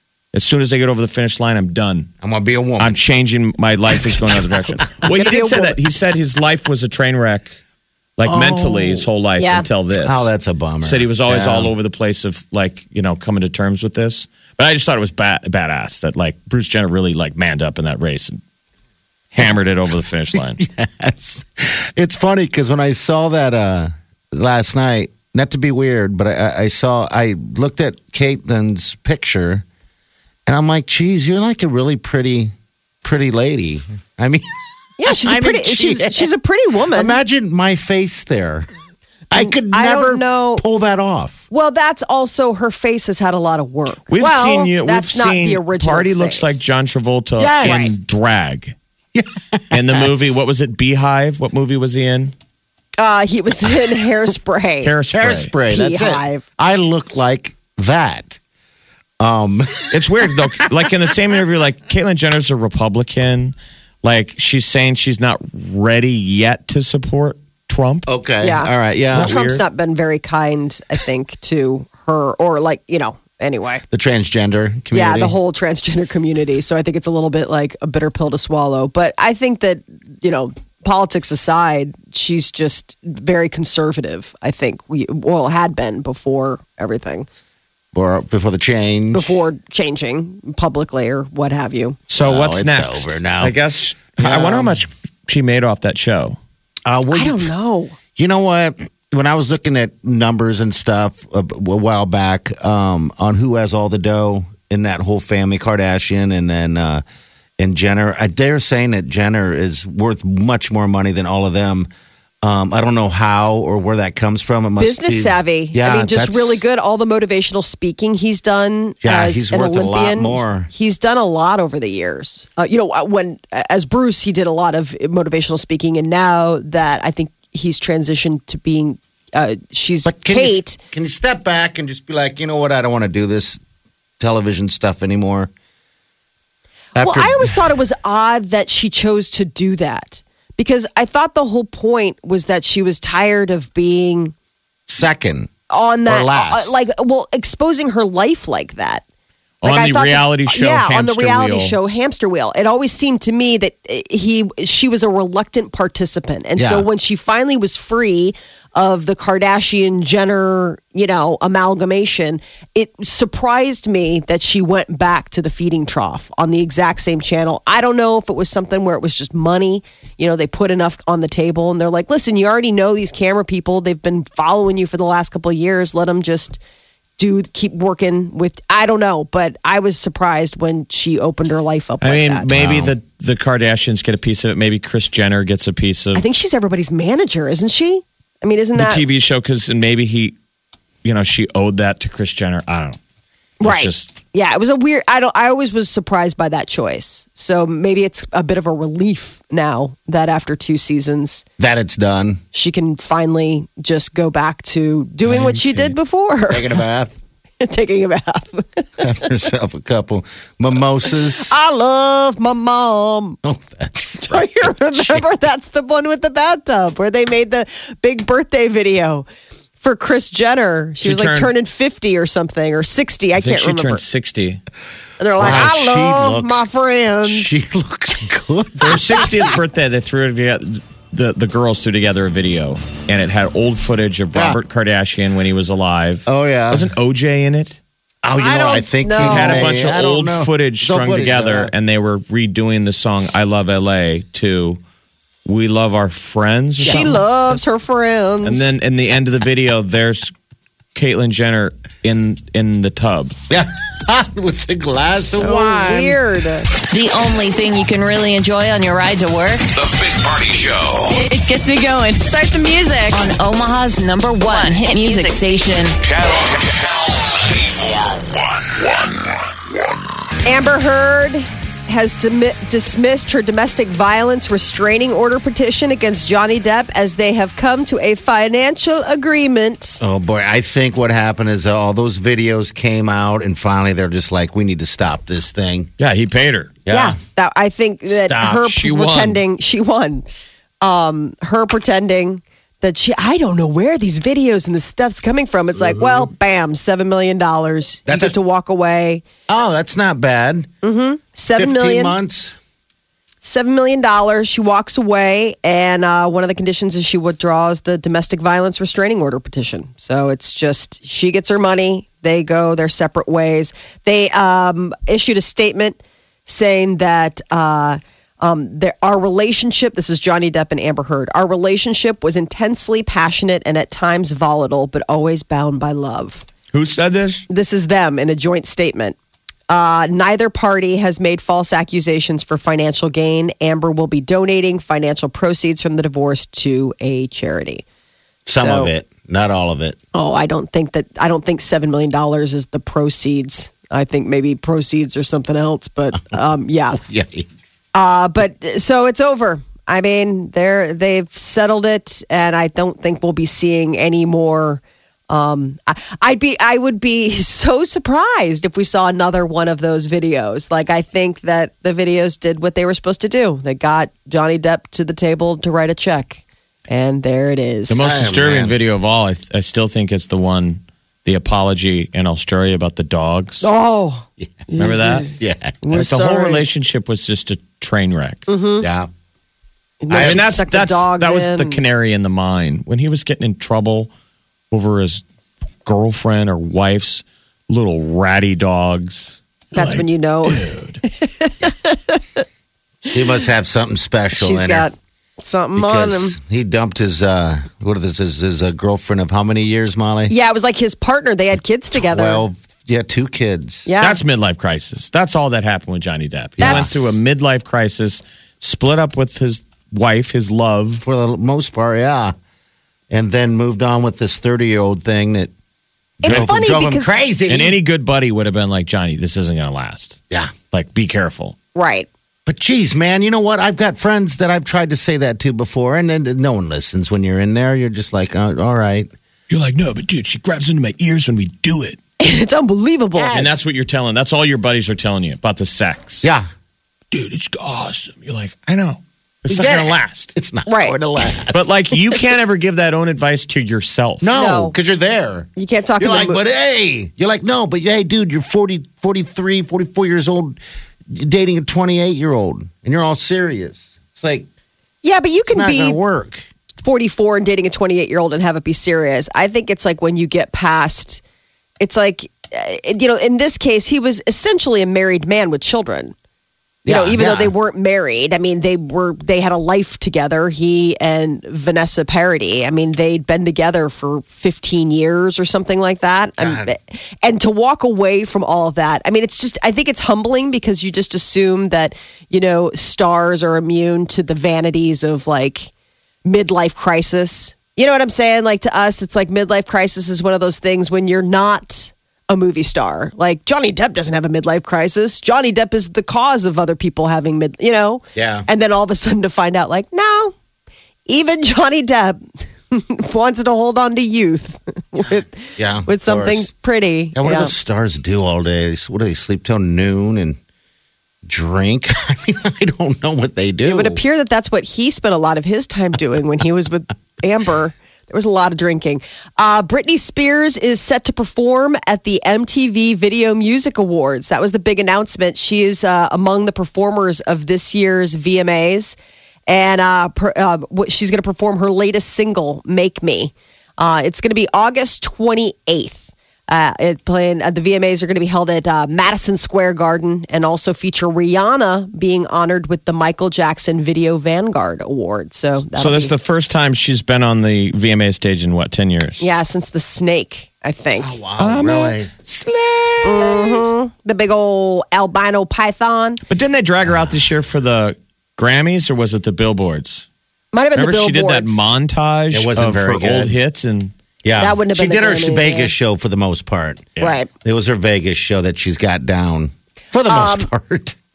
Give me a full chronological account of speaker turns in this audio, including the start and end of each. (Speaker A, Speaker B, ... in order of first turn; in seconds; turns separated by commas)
Speaker A: 0.3-2.1, Speaker B: 2.2-3.0, Speaker A: 2.8-7.6, Speaker B: 3.9-5.1, Speaker C: 5.0-5.8, Speaker A: 8.2-10.3, Speaker B: 8.2-9.1, Speaker C: 9.4-9.7, Speaker B: 9.9-11.7, Speaker A: 10.8-18.4, Speaker A: 19.3-20.6, Speaker B: 20.4-29.6, Speaker B: 30.5-34.5, Speaker C: 35.0-37.2, Speaker B: 35.0-36.3, Speaker B: 36.9-38.7, Speaker B: 39.3-41.5, Speaker C: 39.4-40.6, Speaker C: 41.5-46.6, Speaker A: 44.1-48.8, Speaker B: 47.4-48.0, Speaker C: 47.6-48.0, Speaker B: 49.1-50.3, Speaker A: 49.7-52.3, Speaker C: 53.0-54.9, Speaker A: 54.8-55.5, Speaker B: 55.1-58.4, Speaker C: 55.7-56.4, Speaker B: 59.2-60.9, Speaker A: 59.9-68.1, Speaker B: 68.1-69.3, Speaker C: 68.4-73.8, Speaker A: 69.1-69.6, Speaker B: 73.9-75.4, Speaker C: 74.9-87.3, Speaker B: 87.9-89.3, Speaker C: 89.1-92.0, Speaker A: 92.1-96.4, Speaker B: 92.2-93.5, Speaker B: 94.2-94.8, Speaker B: 96.9-97.5, Speaker C: 97.1-98.0, Speaker B: 98.2-107.0, Speaker B: 107.6-111.9, Speaker B: 112.4-116.6, Speaker C: 114.8-130.8, Speaker B: 119.0-120.7, Speaker B: 130.1-133.6, Speaker B: 134.2-135.5, Speaker B: 137.0-137.7, Speaker C: 137.0-144.3, Speaker B: 144.9-145.5, Speaker C: 145.7-149.0, Speaker B: 146.1-146.7, Speaker A: 149.6-151.8, Speaker C: 149.6-176.6, Speaker B: 156.6-156.9, Speaker C: 177.2-182.5, Speaker A: 182.0-186.2, Speaker B: 182.5-182.9, Speaker C: 186.1-189.0, Speaker A: 188.8-190.3, Speaker A: 191.0-193.0, Speaker A: 193.6-194.1, Speaker C: 193.6-201.4, Speaker B: 201.6-202.4, Speaker C: 202.5-206.8, Speaker A: 205.3-205.9, Speaker B: 206.5-207.1, Speaker C: 207.6-209.2, Speaker B: 209.0-211.5, Speaker C: 211.4-213.4, Speaker B: 213.4-215.2, Speaker C: 214.2-219.2, Speaker C: 219.8-224.0, Speaker A: 221.0-221.5, Speaker A: 223.4-224.6, Speaker C: 225.2-227.6, Speaker B: 225.4-226.6, Speaker B: 227.3-229.6, Speaker A: 228.8-237.8, Speaker B: 234.3-234.6, Speaker B: 236.3-236.9, Speaker B: 238.2-241.7, Speaker C: 238.4-239.7, Speaker A: 239.2-244.8, Speaker A: 245.5-247.2, Speaker C: 246.8-248.7, Speaker A: 248.4-250.3, Speaker A: 250.9-253.4, Speaker B: 253.5-256.2, Speaker C: 255.2-256.7, Speaker D: 256.9-259.7, Speaker E: 259.8-261.2, Speaker C: 261.1-263.2, Speaker D: 263.1-266.0, Speaker C: 264.5-265.3, Speaker E: 266.0-269.4, Speaker C: 270.4-280.0, Speaker B: 280.0-285.9, Speaker A: 286.0-286.8, Speaker B: 286.9-287.2, Speaker C: 286.9-290.3, Speaker B: 288.1-288.7, Speaker A: 288.6-289.4, Speaker C: 290.8-299.2, Speaker B: 295.8-296.3, Speaker B: 298.1-298.4, Speaker B: 299.5-300.7, Speaker C: 300.8-302.1, Speaker B: 301.6-302.6, Speaker C: 303.4-326.5, Speaker A: 326.7-327.5, Speaker C: 327.5-329.1, Speaker C: 329.7-337.8, Speaker B: 338.4-340.0, Speaker C: 338.5-338.9, Speaker C: 340.1-347.0, Speaker B: 346.9-347.6, Speaker C: 347.9-368.0, Speaker A: 367.9-373.6, Speaker B: 368.0-368.8, Speaker C: 373.6-376.6, Speaker B: 374.4-374.7, Speaker A: 374.8-375.3, Speaker B: 375.4-375.8, Speaker A: 375.9-378.4, Speaker C: 378.5-378.9, Speaker B: 378.8-379.1, Speaker C: 380.0-381.8, Speaker B: 380.1-380.4, Speaker A: 380.2-384.1, Speaker A: 384.7-385.2, Speaker A: 385.9-391.0, Speaker C: 389.7-392.4, Speaker B: 393.1-394.9, Speaker C: 394.3-396.4, Speaker B: 395.8-400.3, Speaker C: 400.3-402.4, Speaker B: 401.9-403.9, Speaker C: 403.9-404.2, Speaker A: 404.0-411.0, Speaker B: 406.6-407.0, Speaker C: 406.6-407.1, Speaker B: 411.0-412.3, Speaker B: 413.1-415.5, Speaker C: 416.2-417.1, Speaker B: 416.2-417.8, Speaker A: 417.5-421.6, Speaker C: 421.8-422.1, Speaker B: 422.5-429.1, Speaker A: 429.5-432.0, Speaker C: 432.2-433.4, Speaker B: 433.1-433.6, Speaker A: 433.3-436.3, Speaker A: 437.1-440.3, Speaker B: 439.5-441.6, Speaker C: 440.6-441.0, Speaker A: 441.5-444.3, Speaker B: 444.2-450.6, Speaker C: 444.3-444.8, Speaker C: 445.6-446.4, Speaker B: 451.1-454.5, Speaker C: 455.0-456.0, Speaker B: 455.5-456.4, Speaker C: 456.8-461.2, Speaker C: 461.8-466.1, Speaker B: 466.9-467.5, Speaker C: 466.9-485.7, Speaker B: 476.4-476.7, Speaker C: 486.2-500.4, Speaker B: 498.1-498.5, Speaker C: 501.1-507.5, Speaker B: 505.6-506.5, Speaker B: 507.1-510.4, Speaker B: 511.2-514.0, Speaker C: 513.6-546.1, Speaker A: 545.7-549.2, Speaker C: 549.2-551.2, Speaker B: 551.0-553.6, Speaker A: 551.4-552.9, Speaker C: 553.0-556.2, Speaker A: 556.3-560.1, Speaker C: 560.5-561.6, Speaker A: 560.8-563.9, Speaker B: 562.3-563.4, Speaker B: 564.2-571.0, Speaker C: 564.4-565.7, Speaker C: 567.0-567.3, Speaker C: 570.1-570.5